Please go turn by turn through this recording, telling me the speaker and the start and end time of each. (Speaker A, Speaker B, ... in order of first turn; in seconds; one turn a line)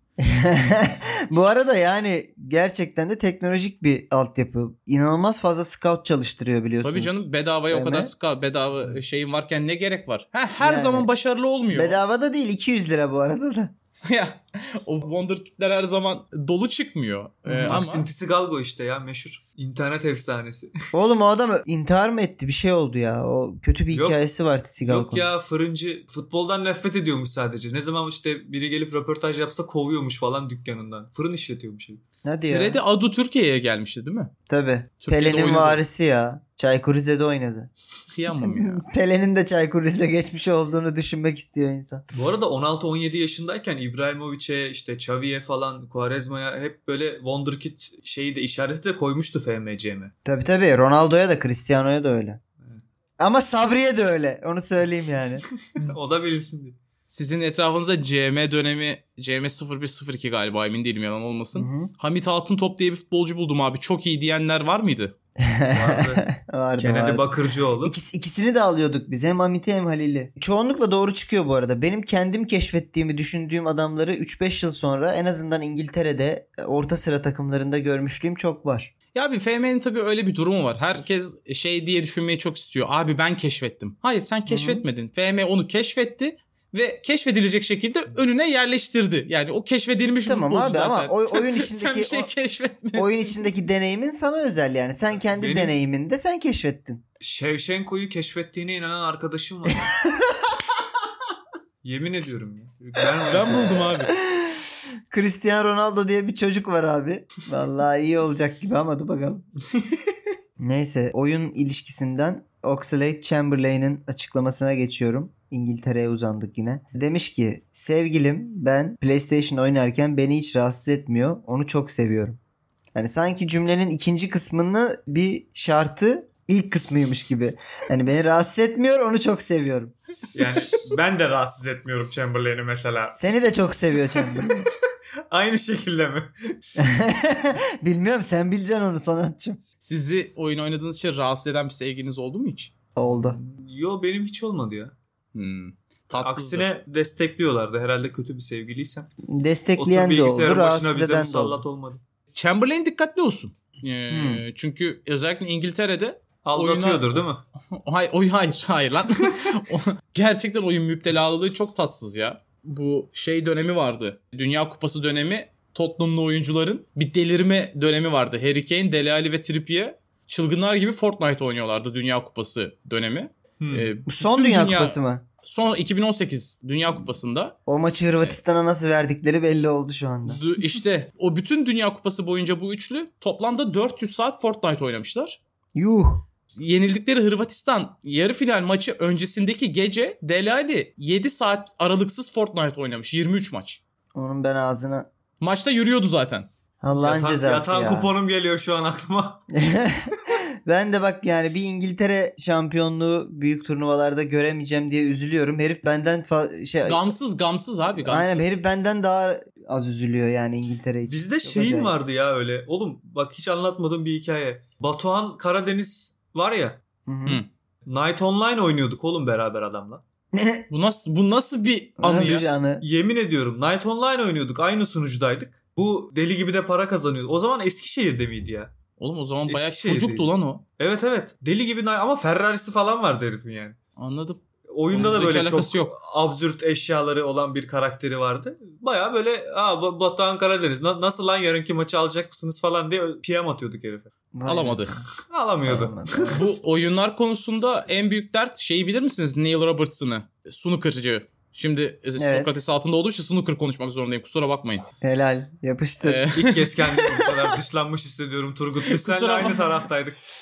Speaker A: 0.2-8.1
Speaker B: 6.8-12.0
Speaker A: 10.6-11.1
Speaker A: 11.7-13.7
Speaker B: 14.0-18.1
Speaker A: 17.5-17.8
Speaker C: 17.7-20.7
Speaker A: 20.9-25.3
Speaker C: 23.9-24.2
Speaker C: 24.8-32.0
Speaker A: 32.2-32.8
Speaker B: 32.5-34.3
Speaker A: 34.5-37.7
Speaker B: 35.0-35.8
Speaker B: 38.1-38.8
Speaker A: 38.4-42.0
Speaker C: 42.1-50.1
Speaker A: 50.2-52.4
Speaker A: 53.2-55.4
Speaker C: 55.8-56.8
Speaker B: 57.1-65.1
Speaker A: 61.5-61.9
Speaker A: 65.4-78.9
Speaker C: 65.7-66.2
Speaker C: 66.8-67.9
Speaker B: 79.1-93.5
Speaker A: 84.5-84.8
Speaker A: 90.2-92.3
Speaker A: 92.9-97.0
Speaker C: 95.3-95.7
Speaker C: 97.2-99.9
Speaker A: 100.0-100.5
Speaker C: 101.8-103.8
Speaker B: 103.3-104.1
Speaker A: 103.3-109.4
Speaker A: 110.6-122.4
Speaker A: 122.9-129.9
Speaker C: 130.3-133.4
Speaker A: 133.1-134.7
Speaker C: 134.2-134.5
Speaker C: 135.3-136.6
Speaker A: 136.8-139.6
Speaker B: 139.8-142.7
Speaker A: 142.9-143.4
Speaker C: 143.0-144.9
Speaker B: 145.3-146.7
Speaker C: 146.2-149.1
Speaker A: 149.3-151.6
Speaker C: 149.8-152.0
Speaker B: 152.3-157.2
Speaker A: 154.1-154.4
Speaker C: 156.4-157.4
Speaker B: 157.7-177.6
Speaker C: 173.6-173.9
Speaker A: 174.1-175.2
Speaker A: 177.7-180.4
Speaker B: 180.3-185.4
Speaker A: 185.7-186.2
Speaker B: 186.6-193.8
Speaker A: 194.1-195.1
Speaker B: 195.4-196.5
Speaker A: 196.8-198.1
Speaker C: 196.9-199.4
Speaker A: 199.5-207.0
Speaker B: 206.8-208.6
Speaker A: 208.0-211.9
Speaker C: 211.1-216.8
Speaker A: 217.1-217.4
Speaker C: 217.8-220.0
Speaker A: 220.3-220.7
Speaker B: 220.7-222.5
Speaker A: 222.0-222.8
Speaker C: 222.1-228.7
Speaker B: 229.0-230.6
Speaker C: 229.5-233.8
Speaker B: 234.0-235.9
Speaker C: 234.7-244.1
Speaker A: 244.3-245.1
Speaker B: 244.4-244.9
Speaker C: 245.3-246.4
Speaker A: 245.6-246.4
Speaker B: 246.3-254.8
Speaker A: 252.2-252.6
Speaker A: 255.0-256.3
Speaker B: 256.0-257.3
Speaker C: 256.3-260.2
Speaker B: 258.9-259.6